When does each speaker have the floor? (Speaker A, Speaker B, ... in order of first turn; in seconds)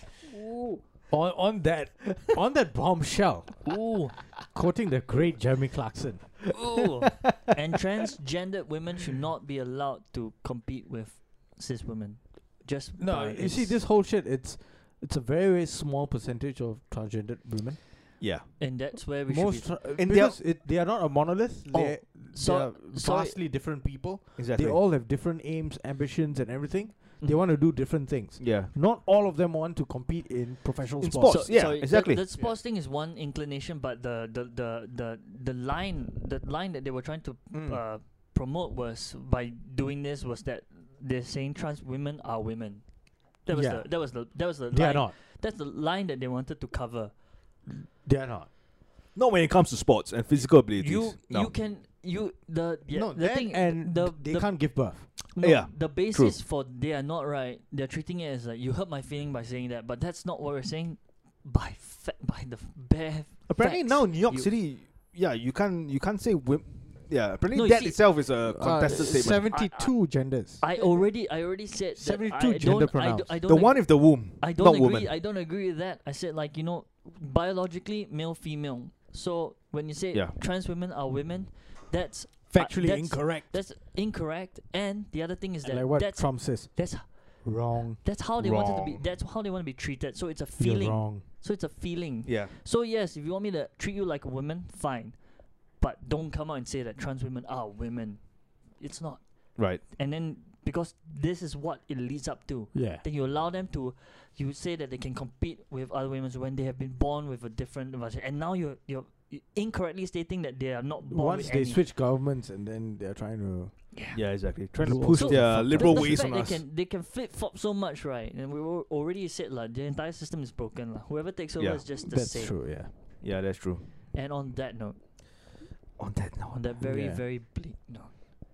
Speaker A: 0.3-0.8, 3.7-4.2, 6.5-13.8, 18.6-19.8, 22.3-23.4, 31.3-47.1, 50.8-64.5, 67.5-111.8, 113.9-114.5, 115.1-122.6, 124.1-125.0, 126.5-128.2
Speaker B: 1.1-6.8, 13.0-18.2, 19.3-31.6, 37.5-37.8, 43.5-45.1, 47.7-48.5, 52.9-55.1, 68.4-71.0, 72.0-73.4, 82.5-83.6, 85.6-88.0, 90.6-91.2, 102.7-103.0, 111.1-116.2, 122.0-122.9, 126.8-127.2
Speaker C: 18.2-18.5, 20.0-20.4, 21.7-22.0, 24.4-24.8, 28.4-28.7, 31.0-32.3, 49.1-51.5, 55.4-56.4, 63.5-69.5, 73.5-75.1, 88.4-89.1, 92.2-92.5, 99.6-99.8, 114.1-116.6, 123.2-124.2, 126.0-126.6